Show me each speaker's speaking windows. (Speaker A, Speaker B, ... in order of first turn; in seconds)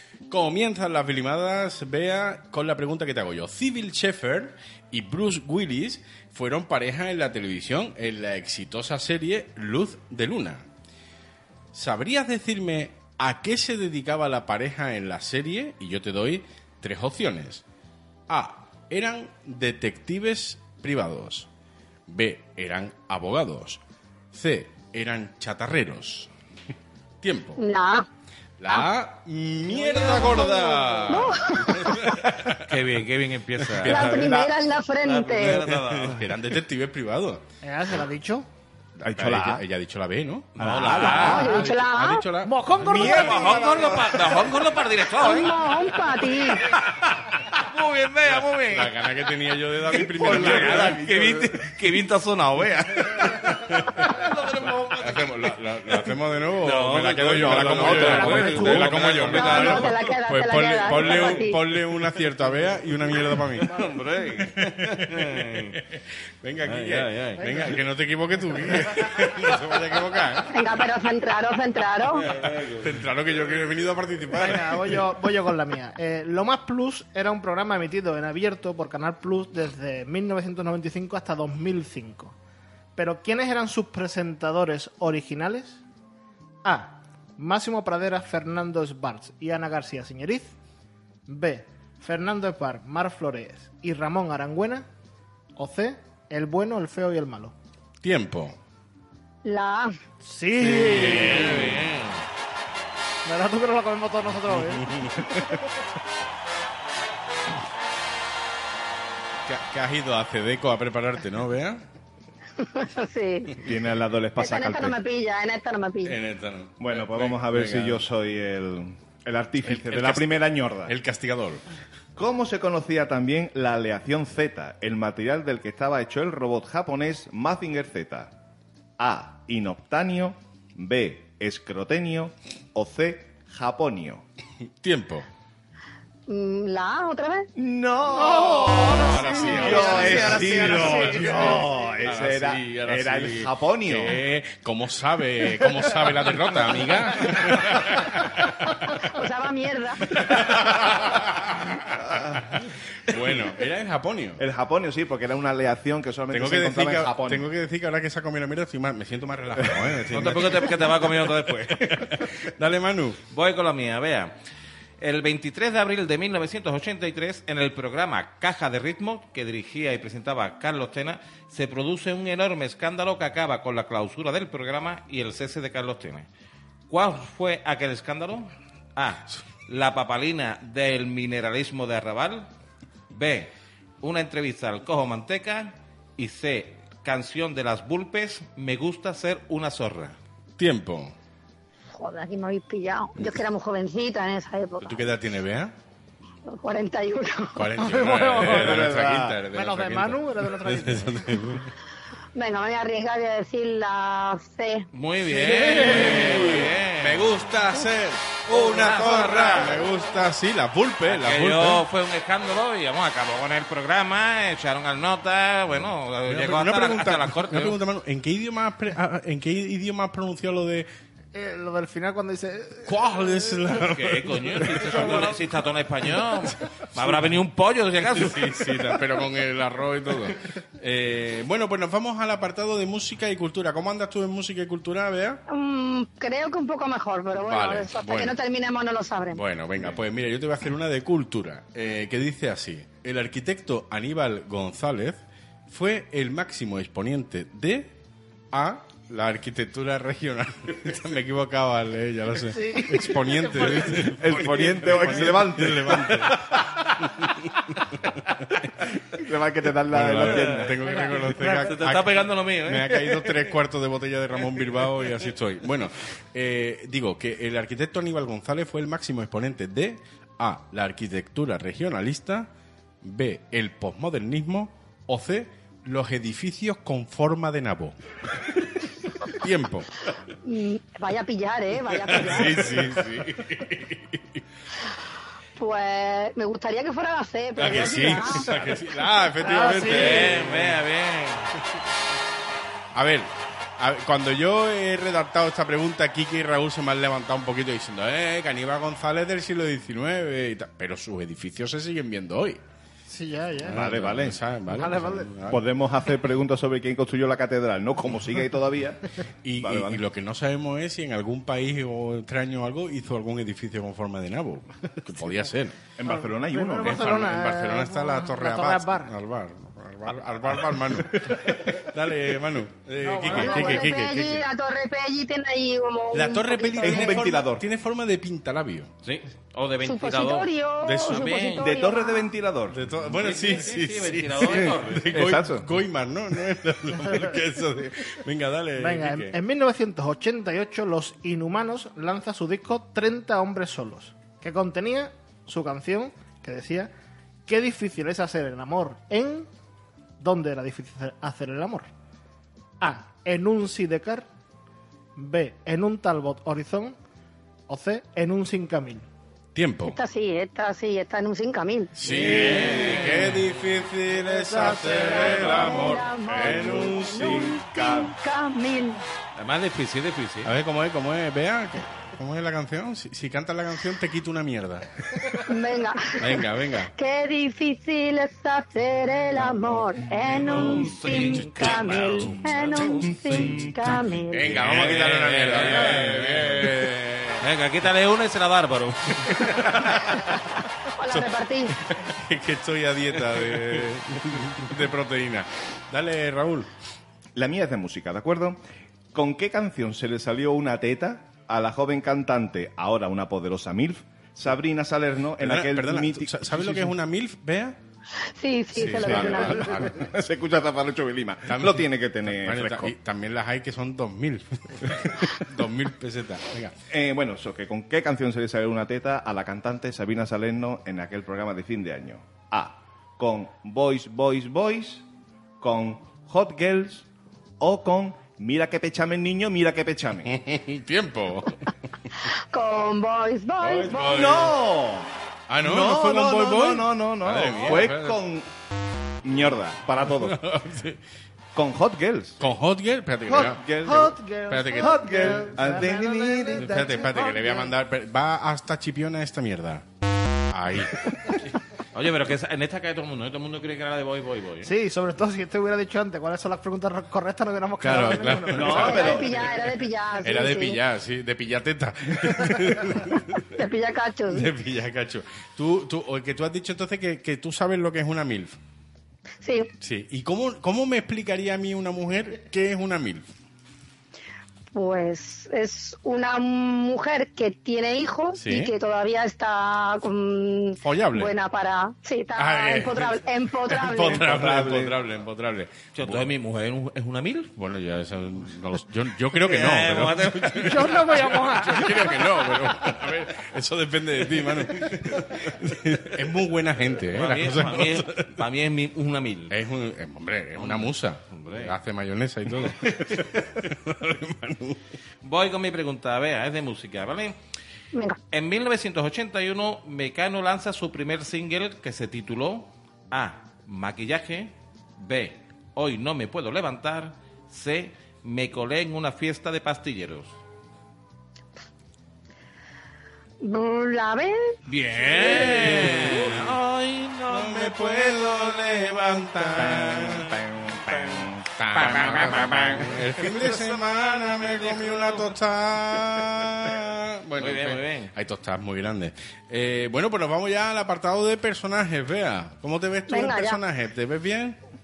Speaker A: 0.3-10.6, 11.7-17.6, 18.3-21.5, 22.1-23.8, 24.3-26.3, 27.2-27.6, 28.6-32.7, 33.7-34.5, 35.4-37.4, 39.1-42.5, 48.7-51.5, 53.6-54.1, 55.0-63.7, 64.5-70.6, 72.3-75.0, 98.0-98.6, 100.6-101.9, 104.8-105.5, 109.5-111.8, 116.0-118.0, 119.6-121.6, 134.8-135.2, 138.9-148.5, 150.1-154.4, 156.3-163.2, 190.6-191.1, 194.8-195.7, 197.6-201.7, 205.3-211.8, 216.3-220.9, 222.8-225.4, 226.5-227.1, 228.1-235.4, 237.4-238.3, 239.3-247.9, 248.5-257.6, 259.9-272.5, 273.0-277.9, 278.6-279.9, 282.0-284.4, 287.6-290.8, 292.9-302.6, 303.6-305.6, 309.4-315.8, 316.8-324.4, 326.1-328.9, 330.8-331.5, 332.7-339.4, 359.5-360.0, 361.9-367.6, 370.4-375.4, 376.2-376.9, 380.4-382.4, 384.3-387.4, 389.3-390.2, 391.8-396.7, 405.4-407.8, 408.7-410.1, 411.5-416.7, 430.2-431.6, 433.6-434.5, 435.5-438.2, 440.1-441.0, 442.4-443.6, 444.5-445.4, 446.6-449.8, 450.5-451.5, 457.8-459.5, 460.2-463.5, 464.3-468.6, 469.8-473.3, 478.4-478.7, 480.8-481.3, 482.4-486.2, 487.6-498.3, 499.5-504.8, 525.0-526.6, 527.3-530.4, 531.5-544.6
Speaker B: 27.6-28.1, 31.1-32.0, 33.8-35.6, 41.0-42.2, 45.2-46.6, 59.2-61.6, 70.5-72.3, 99.4-99.9, 112.6-113.6, 114.4-116.2, 136.3-137.5, 149.0-150.1, 191.9-195.0, 196.5-197.7, 202.3-204.8, 235.5-239.4, 280.4-282.8, 285.6-288.7, 323.3-327.2, 329.8-332.3, 359.8-361.9, 364.6-369.0, 375.5-376.4, 376.9-384.6, 390.9-391.8, 408.4-409.9, 432.5-434.3, 458.7-460.8, 463.5-464.5, 469.4-469.7, 474.7-484.3, 507.9-508.2, 523.4-524.5, 543.1-543.6
Speaker C: 32.7-34.4, 35.0-36.2, 40.5-41.6, 43.0-45.8, 46.5-56.0, 56.6-60.1, 60.9-61.4, 63.2-65.8, 66.6-67.8, 72.2-72.8, 100.7-102.2, 140.0-140.9, 160.1-162.2, 163.3-164.3, 165.0-176.3, 176.9-182.5, 183.1-190.2, 204.9-207.4, 208.5-209.9, 211.1-217.8, 223.8-228.8, 260.2-260.7, 261.4-263.5, 289.8-291.5, 329.0-331.7, 333.1-335.1, 362.1-363.5, 369.4-370.5, 380.5-383.6, 384.4-386.9, 387.4-389.7, 451.9-454.7, 485.9-487.5, 489.3-491.3, 497.1-499.5, 500.6-501.7, 505.2-507.4, 508.3-520.3, 524.6-529.9, 530.9-535.3, 537.4-538.1
Speaker D: 37.6-38.5, 42.4-43.6, 58.1-58.7, 74.3-82.3, 83.0-85.8, 86.6-90.5, 91.3-94.9, 95.5-97.5, 100.2-101.7, 103.2-105.5, 138.1-141.7, 197.8-198.8, 199.5-201.5, 221.3-223.1, 252.5-254.2, 260.8-261.7, 289.4-290.4, 303.1-303.8, 304.7-305.3, 316.0-319.1, 323.0-323.9, 338.8-346.9, 347.5-349.5, 350.2-351.9, 352.8-354.3, 355.1-356.9, 357.7-359.1, 364.3-365.5, 443.3-447.7, 454.6-459.1, 490.6-492.1
Speaker E: 39.0-39.6, 40.6-41.2, 42.8-44.7, 57.3-59.2, 113.6-115.0, 116.8-120.9, 122.2-128.3, 129.0-134.2, 137.6-144.2, 152.1-152.4, 154.4-157.5, 159.6-160.0, 198.3-199.4, 254.0-256.4, 259.1-260.8, 303.7-304.4, 305.5-310.0, 316.0-317.2, 326.8-327.6, 331.6-332.8, 334.4-335.7, 366.3-368.1, 383.3-383.7, 397.3-398.6, 399.1-406.9, 409.0-412.9, 416.9-425.0, 425.6-427.1, 427.6-430.3, 434.1-435.1, 435.6-438.5, 439.2-440.4, 441.5-442.4, 443.3-447.1, 458.5-459.4, 484.1-485.0, 529.8-531.3